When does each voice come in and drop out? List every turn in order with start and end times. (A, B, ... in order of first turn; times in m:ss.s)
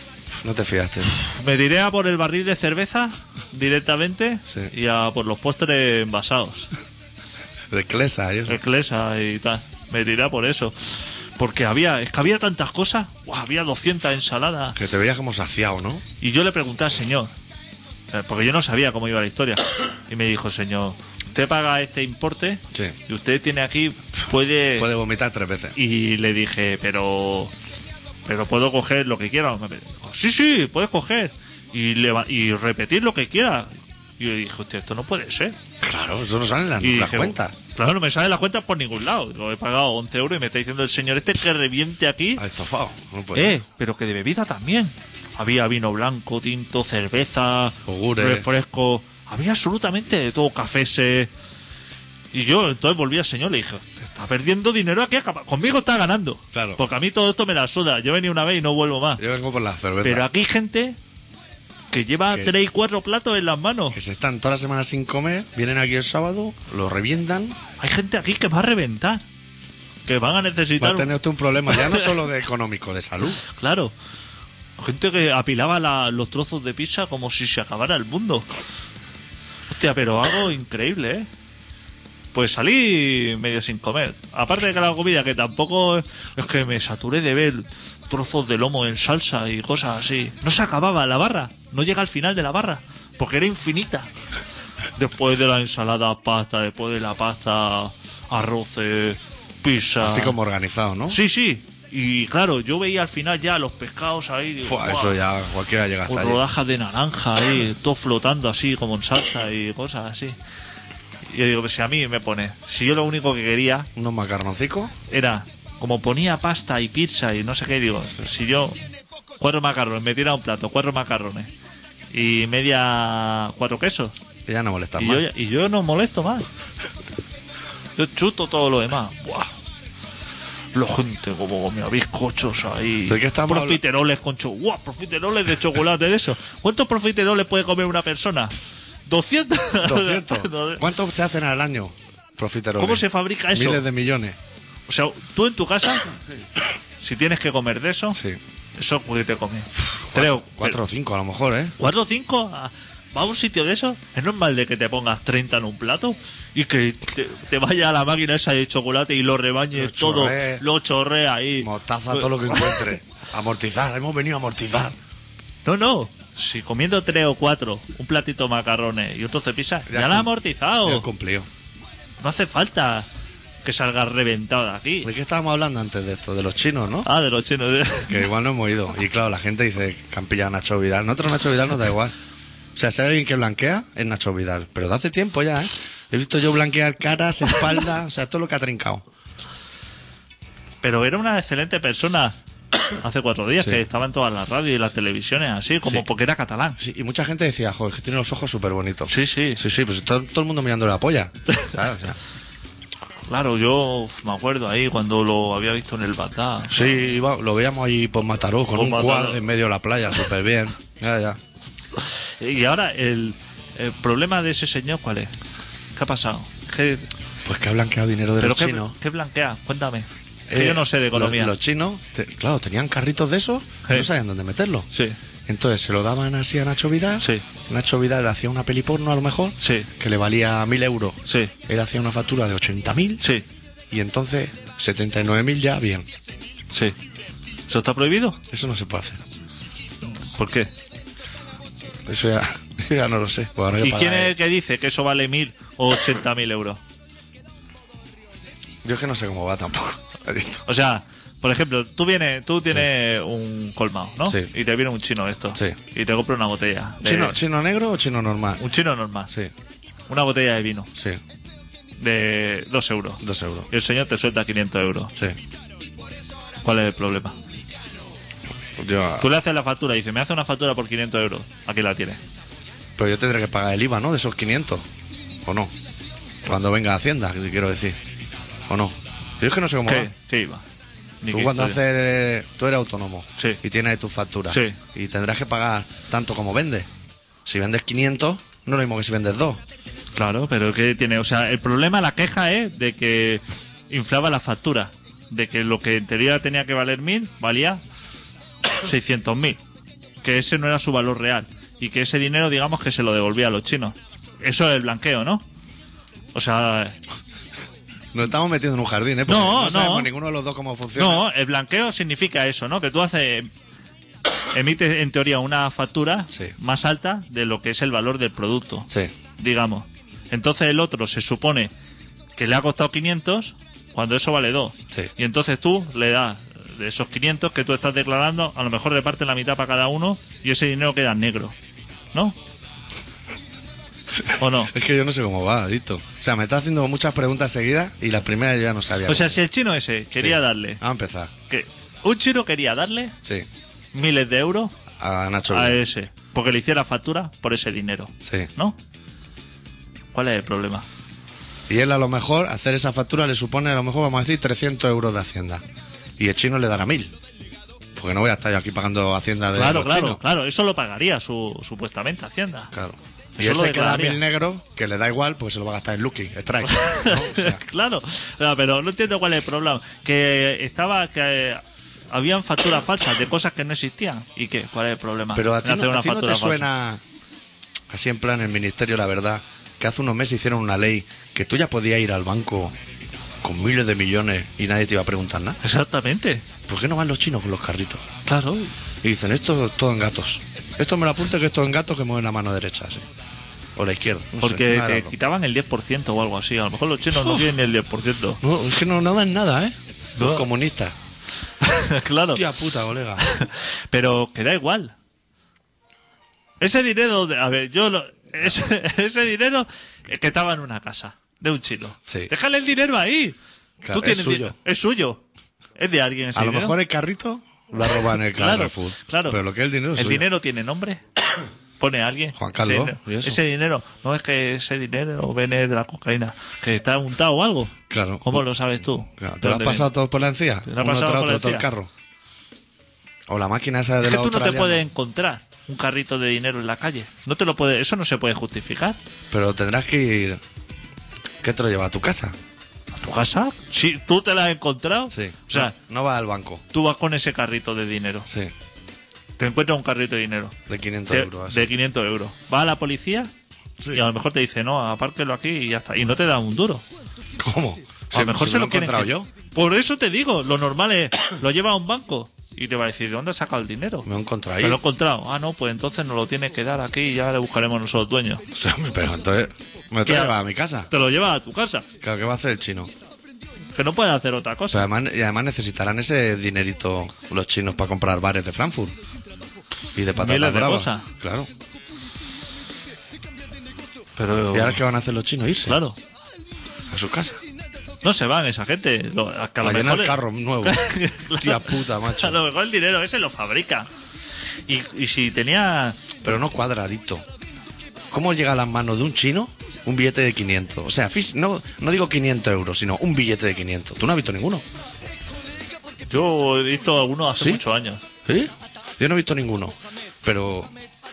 0:00.3-0:01.1 A
0:01.2-0:06.7 B
0:07.7-0:08.6 A
0:08.5-0:14.8 B
0:14.8-0:16.0 A
0:16.2-0:17.3 B
0:18.1-0:24.9 B
0:24.8-0:25.8 A
0:25.8-0:27.5 B
0:28.2-0:35.6 B
0:35.8-0:37.5 A
0:36.8-0:42.4 B
0:42.4-0:43.6 A
0:43.3-0:51.3 B
0:47.8-0:48.5 A
0:52.3-0:59.2 B
0:56.5-0:56.8 A
0:59.2-1:00.3 A
1:00.0-1:01.0 B
1:01.9-1:04.0 B
1:03.9-1:07.6 A
1:07.8-1:09.2 B
1:10.0-1:11.1 B
1:10.8-1:13.4 A
1:11.7-1:12.1 B
1:13.5-1:13.9 B
1:14.8-1:18.4 B
1:19.7-1:21.3 B
1:22.3-1:34.1 B
1:35.0-1:40.4 B
1:40.0-1:41.2 A
1:41.1-1:45.2 B
1:44.6-1:46.4 A
1:46.1-1:50.4 B
1:51.3-1:53.9 B
1:54.0-1:54.9 A
1:55.1-1:58.8 B
1:59.4-2:01.5 B
2:02.1-2:04.1 B
2:04.4-2:05.2 A
2:05.0-2:06.5 B
2:08.0-2:09.5 B
2:10.7-2:18.6 B
2:13.1-2:13.8 A
2:19.1-2:20.8 B
2:19.8-2:24.4 A
2:22.8-2:23.8 B
2:24.9-2:26.1 B
2:27.0-2:28.2 B
2:28.1-2:28.4 A
2:28.8-2:30.8 B
2:29.8-2:31.7 A
2:31.8-2:42.9 B
2:39.7-2:40.6 A
2:41.6-2:45.0 A
2:45.6-2:51.0 B
2:49.9-2:50.3 A
2:50.8-2:51.5 A
2:52.2-2:53.1 B
2:53.6-2:55.1 B
2:55.0-2:57.1 A
2:57.0-2:58.2 B
2:58.1-3:02.1 A
3:02.7-3:09.0 A
3:10.8-3:12.4 B
3:13.0-3:16.8 B
3:16.8-3:22.2 A
3:19.1-3:19.6 B
3:23.3-3:27.0 B
3:26.7-3:31.4 A
3:28.7-3:29.4 B
3:32.4-3:35.3 B
3:35.9-3:37.1 B
3:37.4-3:38.9 A
3:38.4-3:41.5 B
3:40.5-3:44.9 A
3:45.5-3:53.2 A
3:47.2-3:47.4 B
3:49.6-3:49.9 B
3:51.3-3:51.5 B
3:53.2-3:53.4 B
3:53.9-3:56.1 A
3:57.7-3:58.4 B
3:58.5-3:59.2 A
4:00.3-4:00.7 B
4:02.0-4:04.3 A
4:03.8-4:06.8 B
4:08.8-4:10.6 A
4:10.6-4:17.4 B
4:17.0-4:18.6 A
4:18.6-4:19.3 B
4:20.1-4:20.9 B
4:20.9-4:21.2 A
4:22.0-4:25.1 B
4:23.2-4:23.7 A
4:26.6-4:27.3 B
4:28.8-4:29.3 A
4:29.2-4:32.2 B
4:33.0-4:34.8 A
4:35.4-4:35.7 A
4:36.4-4:38.0 A
4:38.7-4:40.1 A
4:39.8-4:40.6 B
4:41.2-4:41.8 B
4:41.3-4:46.9 A
4:44.5-4:44.8 B
4:47.4-4:49.6 A
4:50.1-4:57.8 B
4:58.8-4:59.6 B
5:00.2-5:05.4 B
5:06.3-5:07.0 B
5:08.1-5:11.2 A
5:09.3-5:10.1 B
5:10.9-5:13.5 B
5:14.5-5:21.7 B
5:22.4-5:31.6 B
5:34.2-5:39.4 A
5:34.4-5:34.7 B
5:39.0-5:40.8 B
5:40.2-5:41.3 A
5:41.5-5:43.1 B
5:43.9-5:44.7 B
5:45.0-5:45.8 A
5:45.5-5:48.8 B
5:48.2-5:48.5 A
5:50.1-5:50.8 B
5:51.7-5:55.6 A
5:56.2-5:57.1 A
5:57.9-6:00.2 A
5:59.5-6:02.7 B
6:02.7-6:07.6 A
6:03.4-6:04.2 B
6:06.6-6:16.7 B
6:15.3-6:17.0 A
6:17.9-6:22.8 A
6:23.4-6:25.6 A
6:25.6-6:26.4 B
6:26.7-6:28.0 A
6:28.2-6:28.7 B
6:29.0-6:33.0 A
6:33.8-6:35.1 A
6:34.4-6:38.4 B
6:38.4-6:40.9 A
6:40.2-6:40.4 B
6:41.6-6:42.4 B
6:42.3-6:43.2 A
6:43.2-6:44.9 B
6:46.6-6:53.4 B
6:52.1-6:52.3 A
6:53.8-6:54.5 A
6:53.9-6:55.2 B
6:55.8-6:56.8 B
6:56.3-7:00.2 A
6:58.3-6:59.4 B
6:59.9-7:01.0 B
7:01.8-7:09.9 B
7:02.3-7:03.4 A
7:07.9-7:08.4 A
7:09.1-7:11.9 A
7:10.6-7:11.6 B
7:13.3-7:14.8 A
7:14.0-7:19.0 B
7:19.3-7:20.4 A
7:21.4-7:22.4 A
7:23.0-7:25.7 B
7:25.1-7:26.6 A
7:26.7-7:28.3 B
7:29.4-7:30.6 B
7:30.7-7:31.7 A
7:31.1-7:33.3 B
7:33.9-7:36.8 B
7:37.4-7:39.3 A
7:38.1-7:44.1 B
7:44.0-7:44.8 A
7:44.6-7:48.4 B
7:48.5-7:50.9 A
7:50.0-7:50.4 B
7:50.9-7:51.9 B
7:52.0-7:52.9 A
7:53.7-7:54.9 B
7:54.7-7:58.9 A
7:59.9-8:01.5 A
8:00.1-8:01.1 B
8:04.2-8:04.8 B
8:04.5-8:05.8 A
8:05.7-8:06.0 B
8:06.9-8:07.4 A
8:08.0-8:13.9 B
8:09.6-8:12.4 A
8:14.7-8:16.1 B
8:16.2-8:17.2 A
8:18.1-8:24.6 A
8:26.1-8:28.0 B
8:27.3-8:27.6 A
8:28.2-8:30.7 A